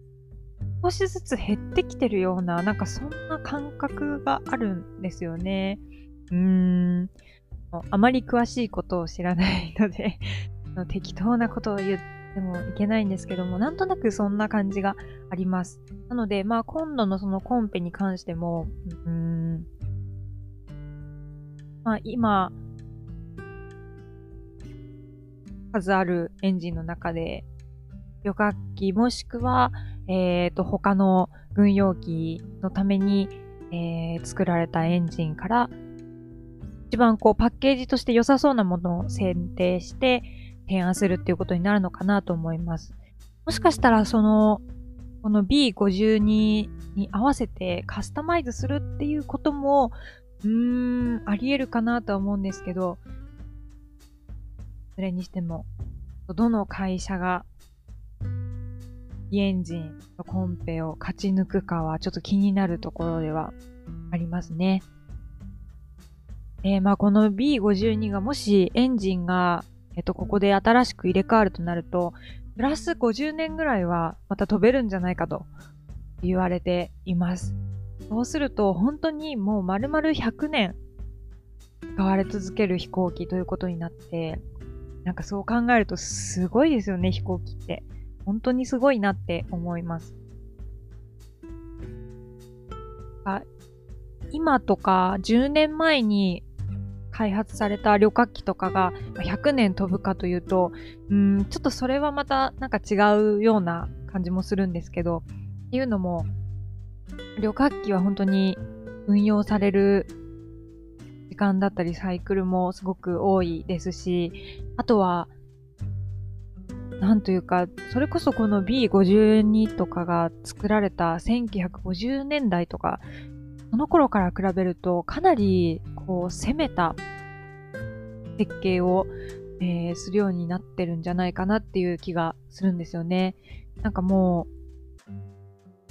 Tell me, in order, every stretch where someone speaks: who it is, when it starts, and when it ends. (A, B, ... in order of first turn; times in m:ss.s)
0:00.8-0:07.1 A
0:07.7-0:19.6 A
0:21.8-0:22.5 A
0:25.7-0:27.4 A
0:28.2-0:35.7 A
0:36.9-0:42.9 A
0:43.4-0:44.6 A
0:45.2-0:53.0 A
0:55.0-0:55.7 A
0:56.3-0:57.5 A
0:59.3-1:03.5 A
1:04.1-1:04.8 A
1:06.6-1:15.5 A
1:16.2-1:17.6 A
1:18.1-1:20.8 A
1:22.0-1:24.4 A
1:25.0-1:30.1 A
1:34.3-1:36.4 A
1:37.1-1:46.3 A
1:47.4-1:50.1 A
1:51.3-1:55.3 A
1:57.0-2:03.0 A
2:03.7-2:07.0 A
2:08.4-2:14.5 A